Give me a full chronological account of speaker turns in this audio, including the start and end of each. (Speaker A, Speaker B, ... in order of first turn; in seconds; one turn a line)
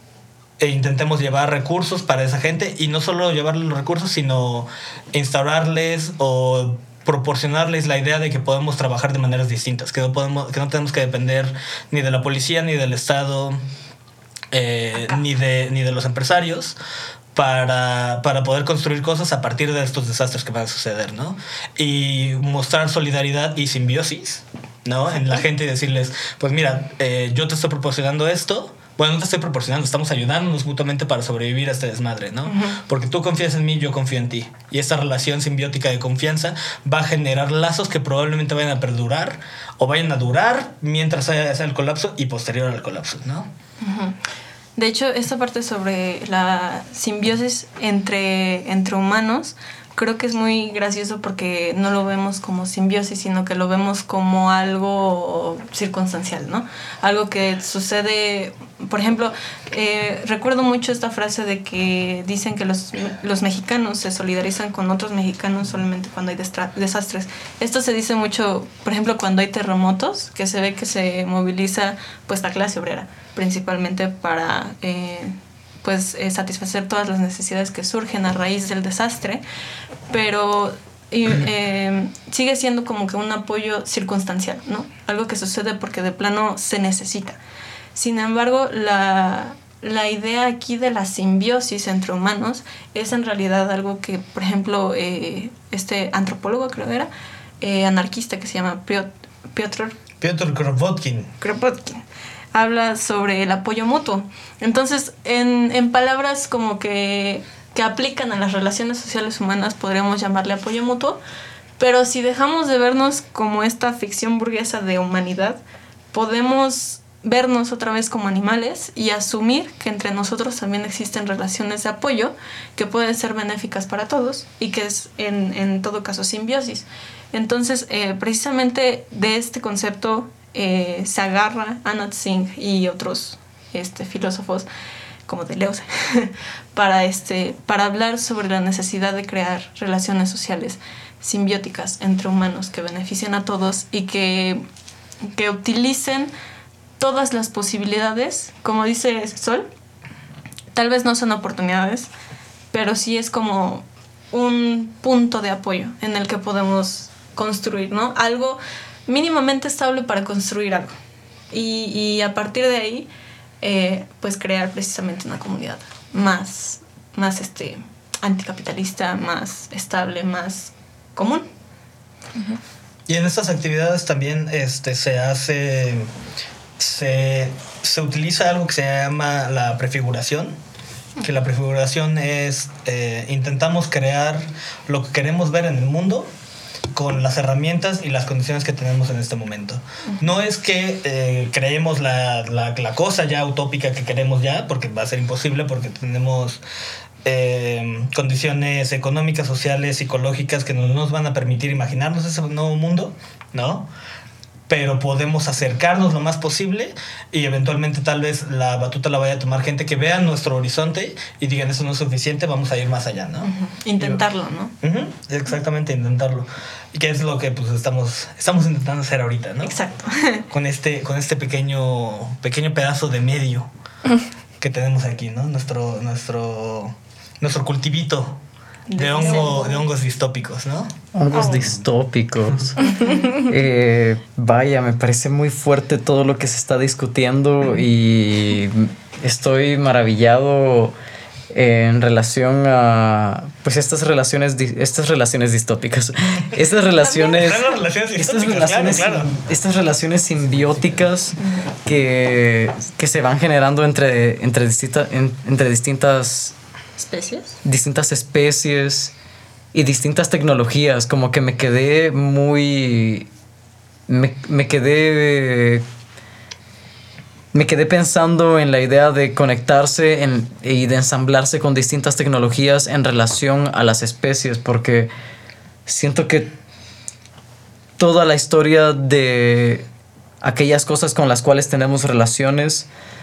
Speaker A: 0.6-13.6
Speaker A: 14.5-16.8
Speaker A: 17.4-43.5
Speaker B: 32.5-32.8
Speaker B: 43.8-44.2
Speaker B: 44.8-79.4
Speaker B: 80.1-87.4
Speaker B: 88.0-97.1
Speaker B: 97.6-100.0
Speaker A: 100.2-101.3
Speaker B: 101.4-102.0
Speaker B: 102.5-111.2
Speaker B: 111.8-115.6
Speaker B: 116.1-134.7
Speaker B: 135.3-144.6
Speaker B: 145.3-146.3
Speaker B: 147.0-149.7
Speaker B: 150.7-152.1
Speaker B: 152.7-160.9
Speaker B: 161.5-163.1
Speaker B: 163.6-171.4
Speaker A: 173.1-176.1
Speaker A: 176.8-180.6
Speaker A: 181.2-186.3
Speaker A: 186.9-196.6
Speaker A: 197.2-203.9
Speaker A: 204.7-213.5
Speaker B: 213.4-214.7
Speaker A: 214.8-219.7
Speaker B: 219.6-220.4
Speaker A: 220.5-223.7
Speaker A: 224.6-228.4
Speaker B: 228.9-229.8
Speaker A: 229.0-230.9
Speaker C: 231.1-232.8
Speaker B: 231.3-231.6
Speaker B: 232.8-233.4
Speaker C: 233.3-240.9
Speaker C: 241.5-256.6
Speaker B: 247.0-247.4
Speaker A: 247.2-249.3
Speaker B: 251.4-251.7
Speaker B: 257.0-257.6
Speaker C: 257.6-259.1
Speaker C: 259.7-263.3
Speaker C: 264.1-265.8
Speaker C: 267.5-275.1
Speaker C: 275.9-276.5
Speaker C: 278.0-279.9
Speaker C: 280.4-282.9